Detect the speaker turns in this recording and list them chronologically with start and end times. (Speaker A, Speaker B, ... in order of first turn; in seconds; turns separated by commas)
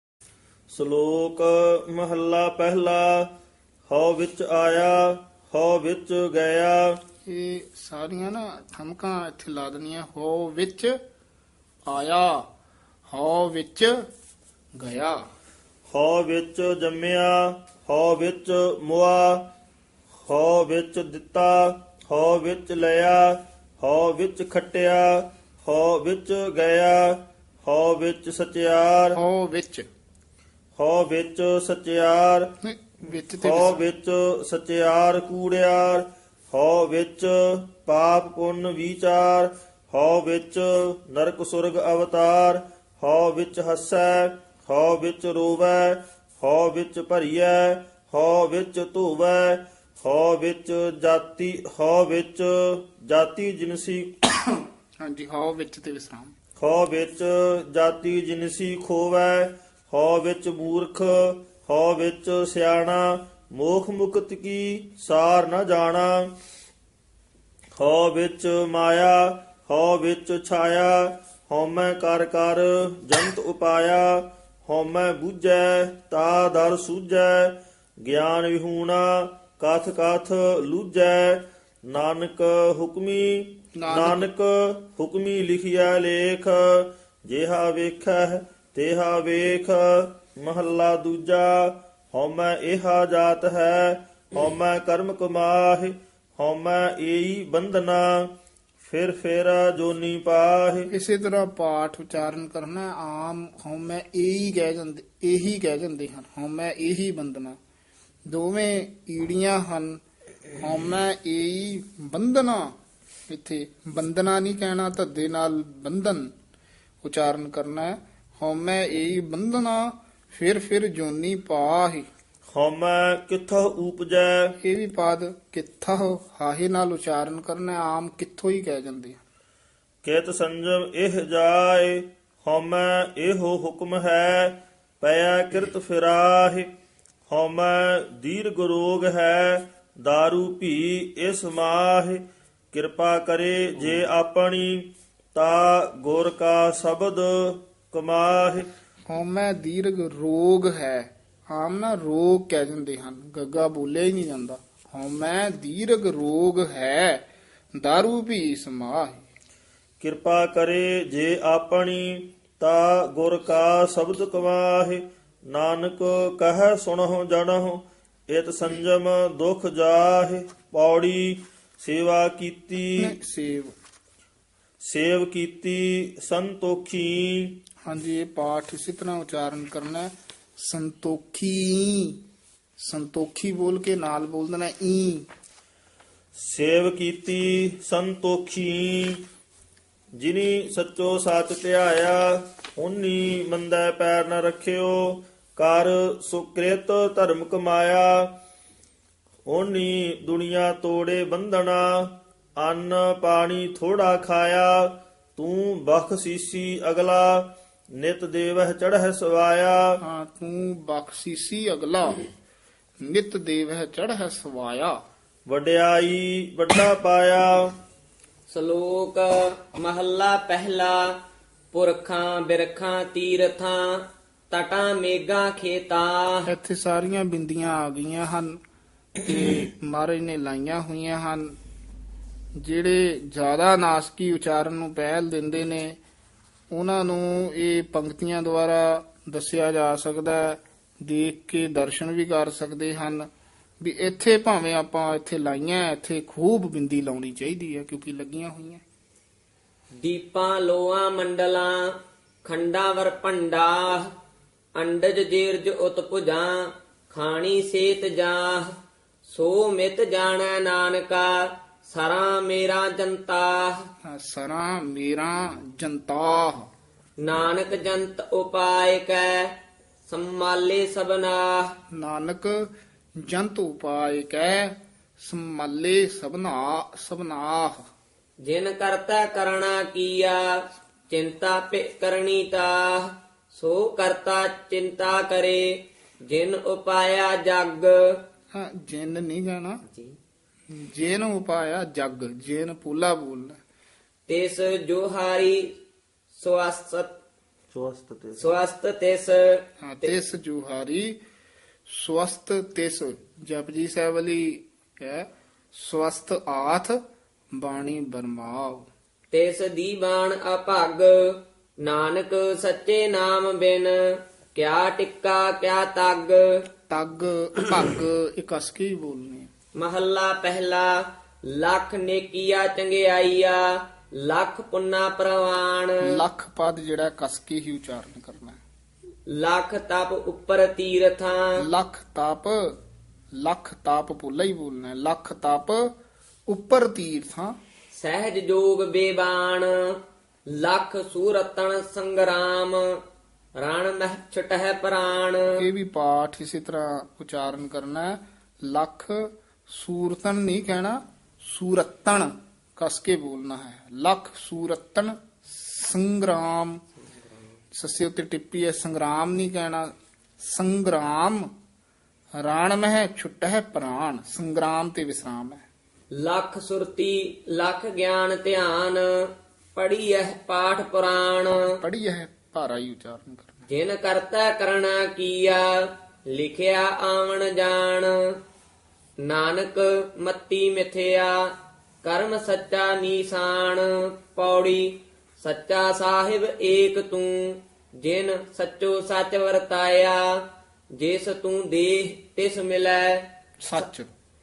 Speaker A: 0.7-3.3, Speaker A: 3.9-6.9, Speaker B: 7.3-11.0, Speaker B: 11.9-12.5, Speaker B: 13.1-14.0, Speaker B: 14.8-15.2, Speaker A: 15.9-19.4, Speaker A: 20.2-29.2, Speaker B: 29.1-29.9, Speaker A: 30.8-32.5, Speaker B: 32.6-33.8, Speaker A: 33.4-54.1, Speaker B: 54.5-56.4, Speaker A: 56.6-66.3, Speaker A: 67.8-98.3, Speaker B: 83.8-84.3, Speaker A: 98.8-100.9, Speaker B: 100.9-107.6, Speaker B: 108.3-110.0, Speaker B: 110.6-112.8, Speaker B: 113.3-116.3, Speaker B: 117.0-122.1, Speaker A: 122.5-124.5, Speaker B: 124.6-129.2, Speaker A: 130.0-136.7, Speaker A: 137.3-148.7, Speaker B: 149.1-157.2, Speaker B: 157.8-159.2, Speaker A: 160.0-173.1, Speaker B: 173.0-173.8, Speaker A: 174.8-177.6, Speaker B: 177.8-182.2, Speaker B: 182.8-185.3, Speaker A: 186.4-189.2, Speaker A: 190.2-198.3, Speaker A: 199.5-209.9, Speaker B: 210.0-212.3, Speaker B: 213.0-215.0, Speaker A: 215.5-217.7, Speaker C: 218.5-221.2, Speaker C: 221.7-226.5, Speaker B: 226.5-228.6, Speaker B: 229.2-231.6, Speaker B: 232.6-236.0, Speaker B: 236.7-243.3, Speaker B: 243.8-248.8, Speaker C: 250.0-254.1, Speaker C: 254.8-258.8, Speaker C: 259.3-263.9, Speaker B: 264.1-266.7, Speaker C: 267.2-269.5, Speaker C: 270.1-271.7, Speaker B: 271.9-277.9, Speaker C: 278.4-280.6, Speaker C: 281.1-288.2, Speaker B: 288.5-289.8, Speaker C: 289.9-290.2, Speaker B: 290.7-293.6, Speaker C: 294.3-295.7, Speaker C: 296.4-297.2, Speaker A: 297.7-298.6, Speaker C: 298.4-300.1, Speaker B: 299.8-301.2, Speaker B: 301.9-307.0, Speaker B: 307.6-308.9, Speaker C: 309.3-316.6, Speaker B: 316.9-319.5, Speaker C: 319.8-326.1, Speaker B: 326.0-328.6, Speaker C: 329.3-331.6, Speaker B: 331.6-332.8, Speaker B: 333.4-335.9, Speaker B: 336.5-337.6, Speaker C: 337.9-340.0, Speaker C: 340.5-343.0, Speaker C: 343.6-345.6, Speaker B: 345.6-356.8, Speaker B: 357.7-361.5, Speaker B: 362.4-365.6, Speaker C: 366.1-371.7, Speaker B: 371.6-373.6, Speaker C: 373.7-378.4, Speaker C: 379.2-393.9, Speaker B: 393.6-394.1